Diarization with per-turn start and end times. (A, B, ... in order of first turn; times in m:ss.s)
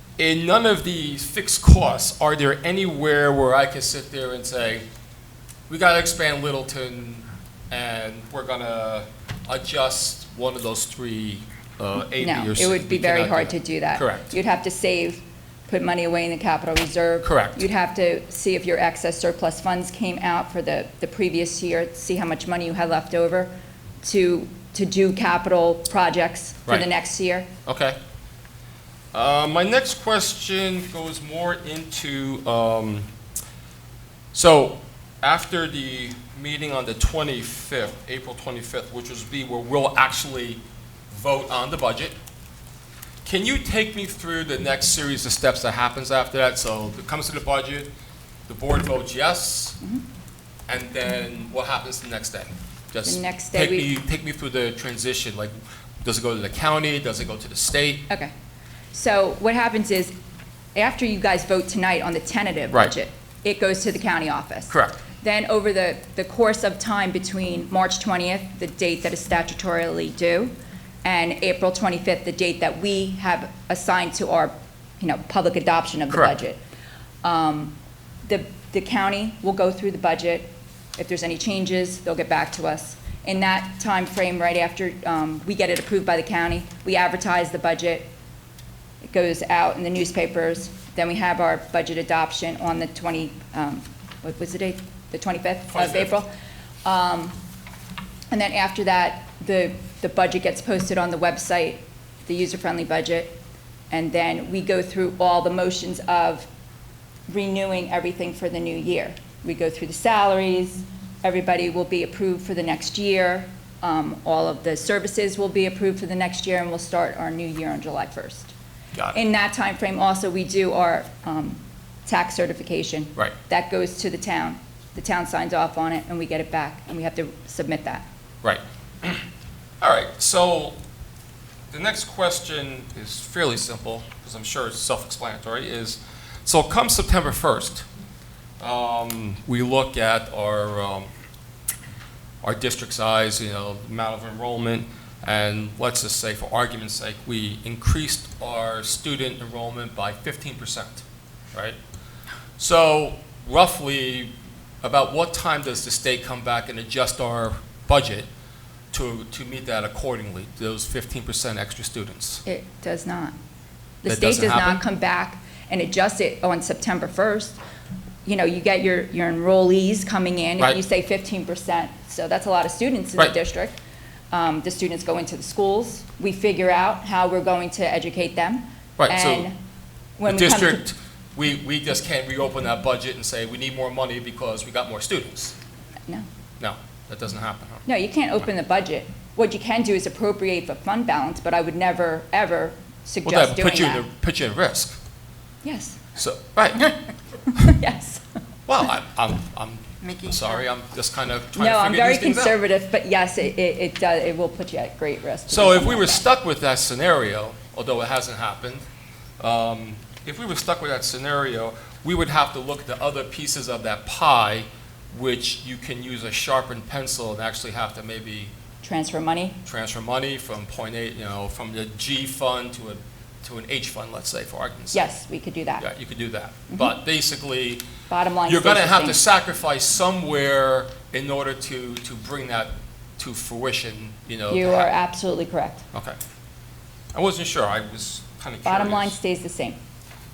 0:00.2-0:04.8 A
0:05.7-0:14.4 A
0:12.2-0:27.5 B
0:17.2-0:17.7 A
0:27.7-0:28.0 A
0:29.1-0:33.1 A
0:34.3-0:42.2 A
0:43.2-0:47.9 A
0:48.5-0:49.8 A
0:50.7-0:58.1 A
0:53.0-0:53.9 B
0:58.1-0:58.3 B
0:58.9-1:00.2 B
1:00.8-1:10.5 B
1:04.7-1:05.0 A
1:11.0-1:16.6 B
1:16.1-1:16.4 A
1:17.2-1:28.1 B
1:29.0-1:36.3 B
1:35.7-1:36.2 A
1:36.8-1:37.4 B
1:38.3-1:43.4 B
1:43.9-1:46.5 B
1:47.3-1:58.5 B
1:59.1-2:08.0 B
2:08.4-2:09.2 A
2:09.8-2:10.8 A
2:11.7-2:17.9 A
2:18.6-2:21.1 A
2:22.4-2:31.8 A
2:32.6-2:34.3 A
2:34.8-2:38.3 A
2:38.9-2:42.4 A
2:42.4-2:43.4 B
2:44.0-2:47.6 B
2:44.1-2:44.8 A
2:48.2-2:53.8 B
2:54.3-2:59.6 B
2:59.0-2:59.5 A
3:00.2-3:00.8 B
3:00.3-3:05.6 A
3:06.6-3:07.8 A
3:07.9-3:14.0 B
3:13.2-3:15.0 A
3:15.6-3:16.0 B
3:16.2-3:17.0 A
3:17.6-3:18.2 B
3:18.7-3:22.6 A
3:21.6-3:26.3 B
3:25.5-3:28.8 A
3:29.4-3:38.5 A
3:38.8-3:39.6 B
3:39.6-3:45.0 A
3:44.9-3:45.8 B
3:45.8-3:47.9 A
3:48.1-3:49.2 B
3:48.5-3:54.9 A
3:54.5-3:55.8 B
3:55.9-3:56.2 A
3:57.1-3:59.2 A
3:58.6-3:59.8 B